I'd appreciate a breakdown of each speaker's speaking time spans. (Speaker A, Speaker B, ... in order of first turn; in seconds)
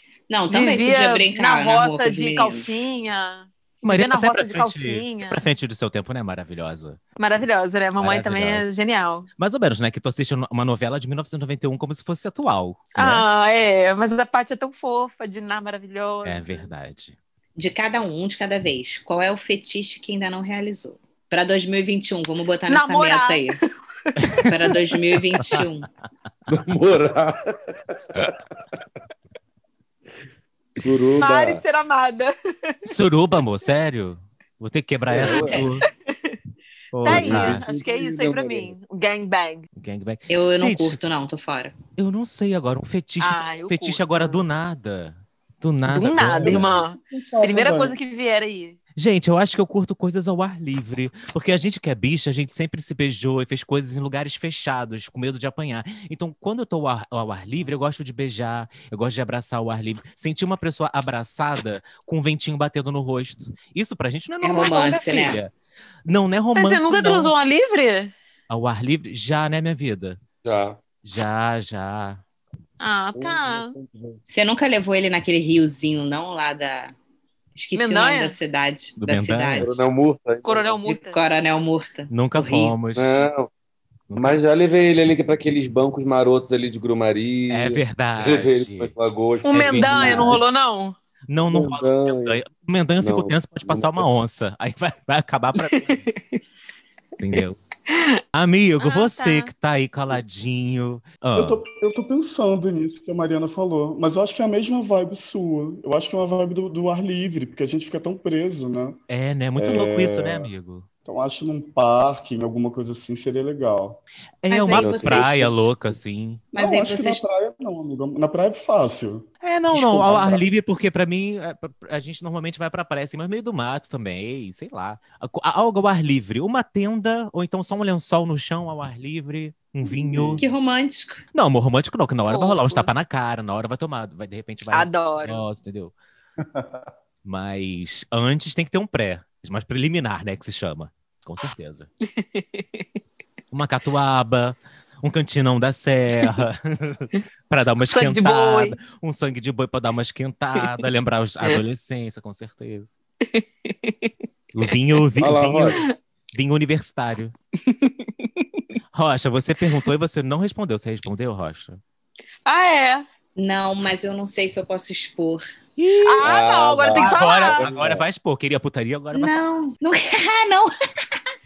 Speaker A: 0.3-2.7, 17.6-23.6, 24.4-25.9, 40.3-41.7, 64.4-65.4, 74.2-76.9, 77.5-79.8, 80.8-82.8, 114.5-115.6, 116.5-117.2, 130.3-131.2, 163.3-165.4, 169.1-170.7
Speaker B: 0.5-5.4, 7.2-9.3, 12.9-16.6, 22.7-24.8, 31.2-32.7, 37.0-39.6, 43.2-44.4, 45.9-48.8, 66.5-68.1, 72.8-73.7, 77.7-78.4, 80.4-81.2, 89.4-91.0, 95.6-96.4, 97.9-98.2, 98.8-99.5, 132.3-132.9, 134.7-135.4, 142.2-142.8, 147.8-148.8, 153.3-154.1, 157.6-158.6, 162.4-163.1, 166.1-167.7
Speaker C: 3.8-7.0, 8.0-8.7, 9.4-13.2, 16.2-17.2, 24.2-24.5, 32.9-35.9, 36.9-37.6, 39.8-41.0, 42.0-46.7, 49.0-65.5, 66.0-67.3, 68.5-70.2, 71.0-72.2, 79.0-79.8, 82.1-83.3, 84.1-84.4, 87.5-88.9, 89.5-90.4, 91.3-96.1, 97.2-97.6, 98.3-101.6, 109.1-110.8, 114.4-116.4, 119.4-130.4, 131.3-135.9, 137.2-141.9, 143.5-152.9, 154.5-157.3, 158.9-161.8, 165.8-166.2, 166.9-169.3
Speaker D: 26.5-28.4, 30.8-31.6, 35.1-35.7, 37.0-38.7, 70.4-70.8, 73.1-74.2, 79.6-80.8, 83.0-83.5, 84.1-90.4, 91.5-92.4, 93.0-94.0, 114.7-115.3, 155.2-155.8, 166.2-168.0
Speaker E: 46.3-48.0, 101.3-109.0, 109.5-110.5, 111.0-114.0, 116.5-120.4, 136.5-136.8